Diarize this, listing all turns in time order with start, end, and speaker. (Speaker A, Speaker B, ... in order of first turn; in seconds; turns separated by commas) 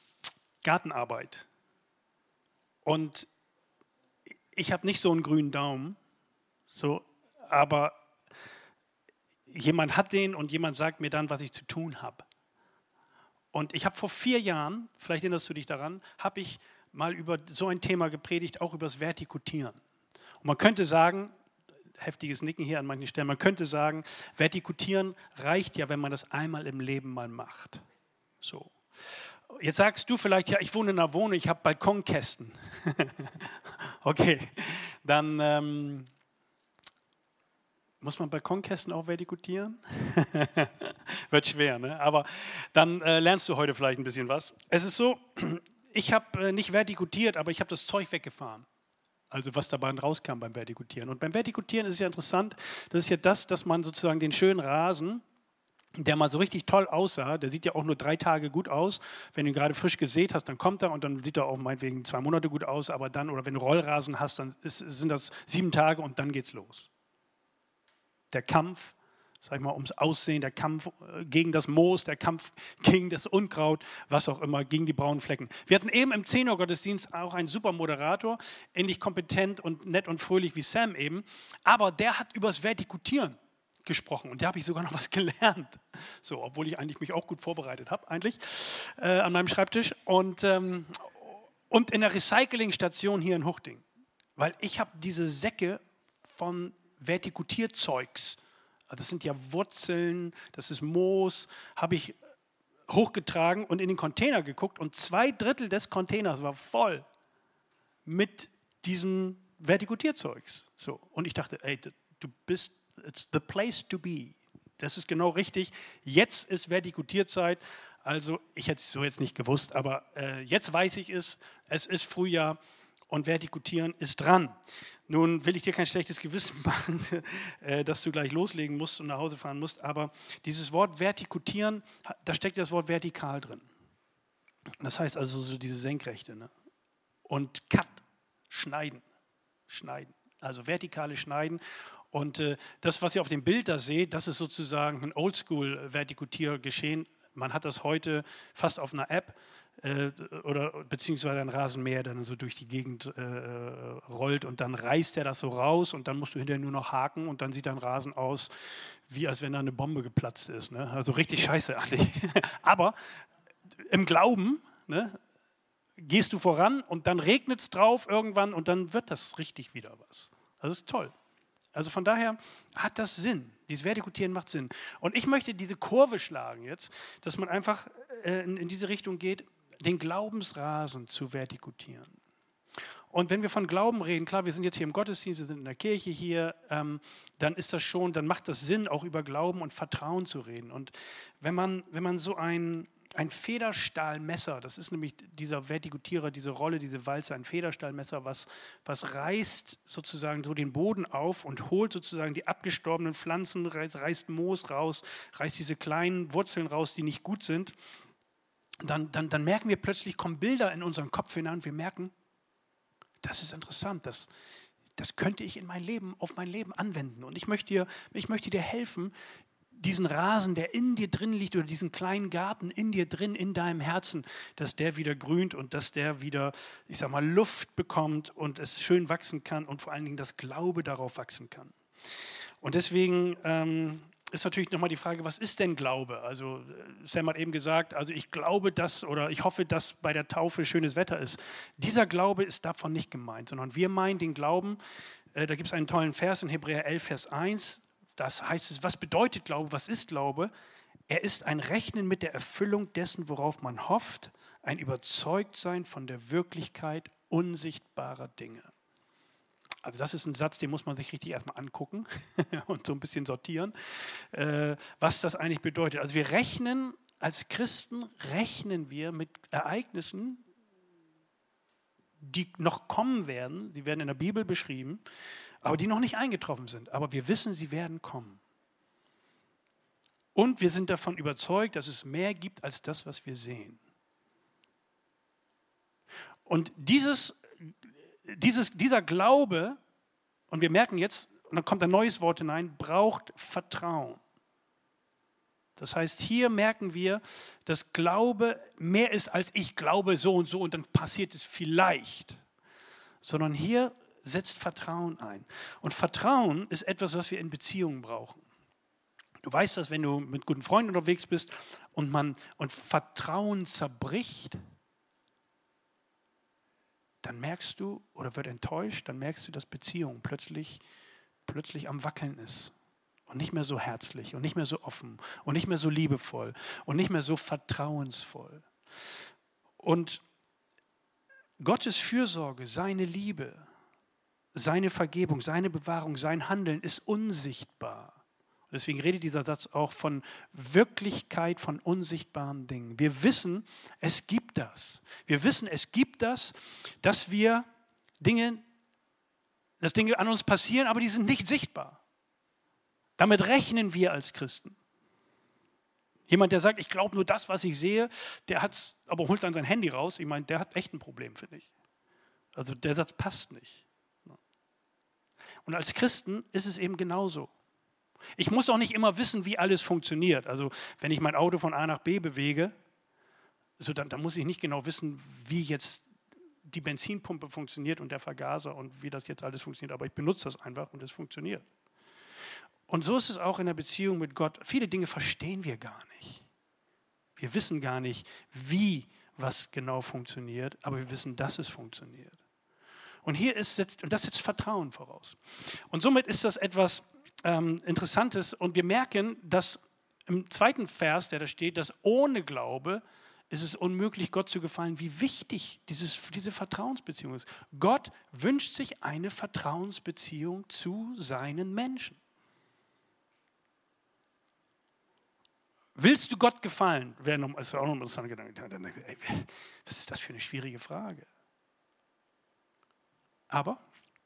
Speaker A: 0.6-1.4, Speaker A: 2.8-3.3, Speaker A: 4.5-6.0, Speaker A: 6.7-8.0, Speaker A: 9.5-12.2, Speaker A: 13.5-19.8, Speaker A: 20.4-21.3, Speaker A: 22.0-27.8, Speaker A: 28.4-36.1, Speaker A: 38.0-48.6, Speaker A: 49.3-55.2, Speaker A: 56.0-66.9, Speaker A: 68.3-93.8, Speaker A: 94.3-98.4, Speaker A: 98.9-102.2, Speaker A: 102.9-107.0, Speaker A: 108.0-122.6, Speaker A: 123.1-124.5, Speaker A: 125.1-133.7, Speaker A: 134.8-136.5, Speaker A: 137.3-139.0, Speaker A: 139.7-141.6, Speaker A: 142.1-162.9, Speaker A: 163.8-165.2, Speaker A: 166.0-171.1, Speaker A: 171.7-182.2, Speaker A: 183.1-207.7, Speaker A: 208.8-212.1, Speaker A: 213.2-214.3, Speaker A: 215.0-219.1, Speaker A: 219.7-231.7, Speaker A: 232.6-244.8, Speaker A: 245.3-250.5, Speaker A: 251.1-258.7, Speaker A: 259.8-270.4, Speaker A: 272.2-275.0, Speaker A: 275.6-278.4, Speaker A: 280.3-283.8, Speaker A: 286.5-287.4, Speaker A: 288.2-289.8, Speaker A: 290.5-294.2, Speaker A: 295.8-302.4, Speaker A: 303.2-308.4, Speaker A: 309.4-314.6, Speaker A: 317.2-320.8, Speaker A: 321.4-322.7, Speaker A: 323.3-328.7, Speaker A: 329.8-330.2, Speaker A: 331.6-333.7, Speaker A: 334.5-338.2, Speaker A: 338.7-347.6, Speaker A: 348.2-348.6, Speaker A: 349.8-352.0, Speaker A: 353.2-354.8, Speaker A: 356.3-361.7, Speaker A: 362.5-364.4, Speaker A: 365.6-367.5, Speaker A: 368.4-372.7, Speaker A: 373.8-376.1, Speaker A: 376.6-381.6, Speaker A: 382.9-386.4, Speaker A: 387.4-392.4, Speaker A: 393.2-412.2, Speaker A: 415.9-421.3, Speaker A: 423.5-423.8